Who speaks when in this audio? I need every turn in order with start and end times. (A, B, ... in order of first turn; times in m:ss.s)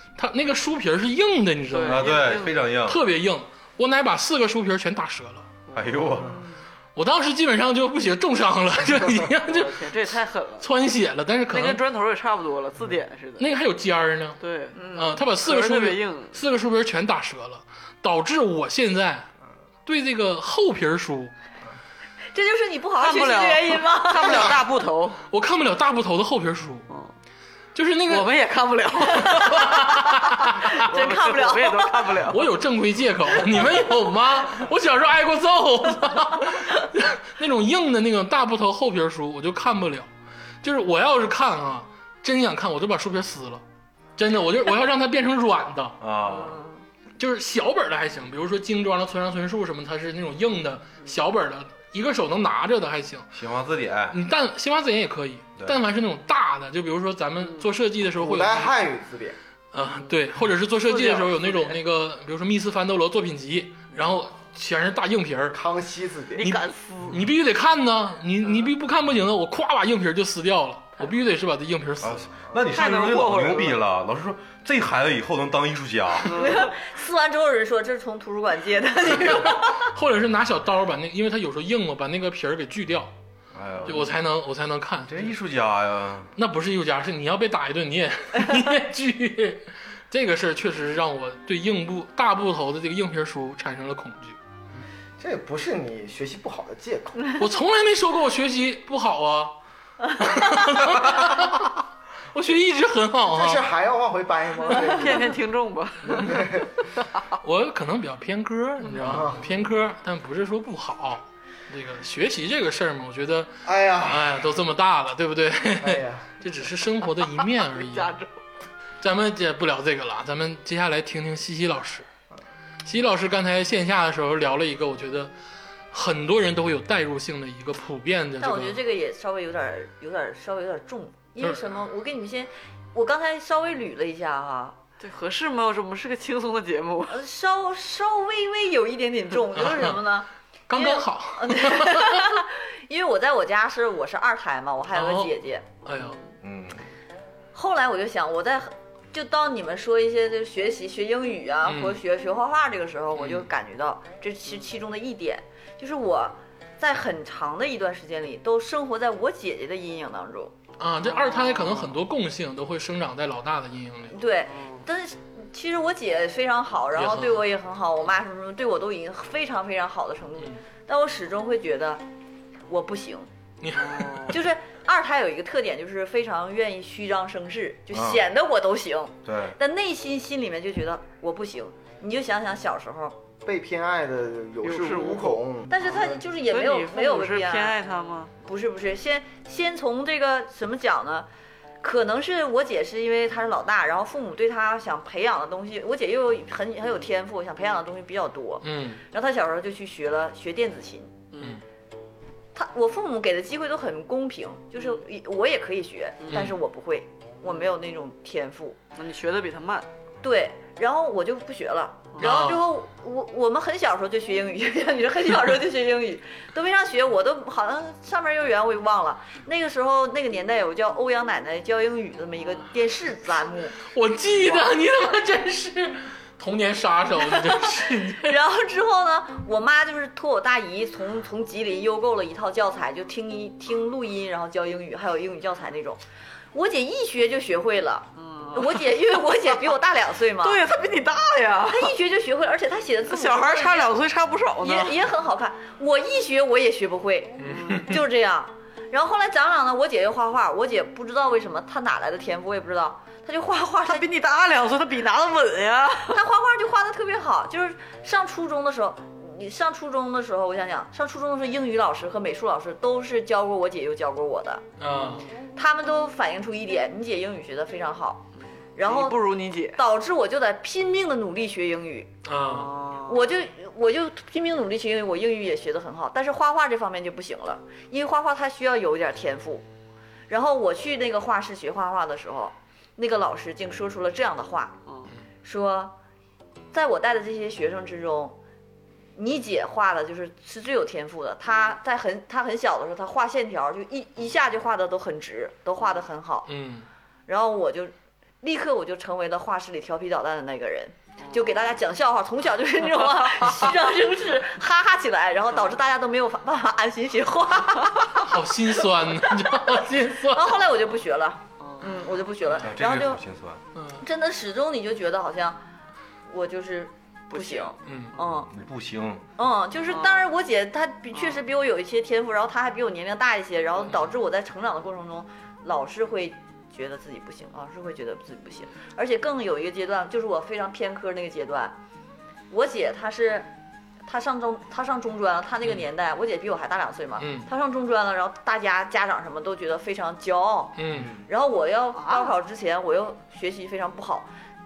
0:00.2-0:05.5 A
0:01.7-0:02.6 B
0:01.8-0:03.0 C
0:05.7-0:06.3 B
0:05.7-0:06.4 C
0:06.9-0:09.9 A
0:09.4-0:10.7 B
0:10.6-0:11.8 A
0:11.5-0:13.4 B
0:13.4-0:14.4 A
0:14.4-0:16.4 B
0:14.7-0:15.2 D
0:14.9-0:19.3 A
0:19.8-0:21.3 A
0:22.3-0:24.6 D
0:23.0-0:25.2 B
0:24.1-0:24.6 E
0:25.3-0:26.8 A
0:27.7-0:28.3 A
0:28.1-0:32.5 B
0:29.2-0:30.8 A
0:29.2-0:29.5 D
0:30.8-0:32.2 D
0:32.3-0:40.1 A
0:40.6-0:43.6 A
0:44.2-0:46.0 A
0:46.0-0:46.6 C
0:46.2-0:46.8 D
0:47.2-0:53.3 A
0:53.3-0:54.2 C
0:54.1-0:58.7 A
0:58.1-0:59.4 E
0:59.7-1:05.6 A
0:59.8-1:00.2 B
1:00.8-1:01.8 B
1:05.5-1:06.5 E
1:06.3-1:07.2 B
1:06.4-1:12.3 A
1:12.0-1:16.4 C
1:12.7-1:13.8 B
1:16.2-1:16.7 B
1:16.3-1:19.9 D
1:19.2-1:23.1 A
1:23.5-1:24.1 C
1:23.8-1:25.3 A
1:25.1-1:26.3 C
1:26.4-1:34.4 A
1:35.2-1:37.2 E
1:37.4-1:39.6 A
1:40.2-1:41.7 A
1:42.3-1:43.6 A
1:43.3-1:45.3 E
1:44.7-1:46.6 B
1:46.2-1:46.7 E
1:47.4-1:58.1 A
1:48.9-1:49.6 E
1:53.6-1:54.4 E
1:55.8-1:56.3 E
1:57.5-1:58.4 B
1:59.0-2:02.0 A
2:02.8-2:05.3 A
2:05.9-2:08.8 A
2:08.4-2:14.8 D
2:15.0-2:17.2 B
2:17.1-2:25.6 D
2:19.6-2:20.0 A
2:20.7-2:22.4 A
2:24.9-2:26.2 A
2:26.4-2:26.8 C
2:27.5-2:40.5 D
2:31.6-2:32.0 A
2:33.1-2:33.4 A
2:40.8-2:44.2 A
2:41.0-2:41.9 B
2:44.1-2:52.0 D
2:44.4-2:44.8 B
2:46.9-2:47.4 A
2:52.7-2:53.3 D
2:53.6-2:54.4 A
2:53.8-2:54.4 B
2:54.3-3:03.2 D
2:57.9-2:58.2 C
2:59.2-2:59.6 C
3:03.4-3:06.0 E
3:04.6-3:05.4 B
3:05.7-3:07.8 D
3:06.4-3:08.3 B
3:08.4-3:11.3 D
3:11.8-3:21.2 D
3:18.6-3:19.0 A
3:21.3-3:21.6 B
3:22.5-3:28.8 D
3:24.8-3:25.0 B
3:26.2-3:26.5 B
3:29.0-3:29.9 B
3:30.2-3:43.8 D
3:32.1-3:32.4 B
3:32.2-3:32.6 A
3:43.9-3:48.3 A
3:44.3-3:44.7 D
3:48.1-3:56.0 D
3:56.5-4:00.7 D
3:58.2-3:59.2 B
4:00.4-4:02.0 B
4:01.7-4:04.0 D
4:03.1-4:05.0 B
4:04.6-4:14.0 D
4:07.4-4:08.0 A
4:07.5-4:08.0 B
4:13.8-4:16.2 B
4:16.1-4:24.6 D
4:24.8-4:25.3 A
4:25.5-4:29.2 D
4:28.8-4:29.8 B
4:29.8-4:32.1 D
4:32.2-4:32.7 A
4:32.4-4:33.3 B
4:33.1-4:39.6 D
4:40.3-4:44.8 D
4:45.4-4:45.9 D
4:46.7-4:48.4 D
4:49.2-4:56.5 D
4:56.5-4:56.9 A
4:57.3-5:08.3 D
5:01.2-5:01.7 B
5:02.9-5:03.7 B
5:08.2-5:10.6 A
5:09.6-5:13.2 D
5:11.6-5:12.2 B
5:12.6-5:13.6 C
5:13.7-5:14.0 A
5:14.0-5:15.6 D
5:16.3-5:18.5 D
5:17.3-5:18.5 B
5:17.8-5:18.1 A
5:18.5-5:19.2 C
5:19.4-5:31.8 D
5:19.9-5:20.3 B
5:21.1-5:21.4 B
5:32.5-5:33.5 D
5:34.0-5:44.3 D
5:37.2-5:37.5 A
5:40.8-5:41.1 A
5:40.9-5:41.3 E
5:41.9-5:42.3 B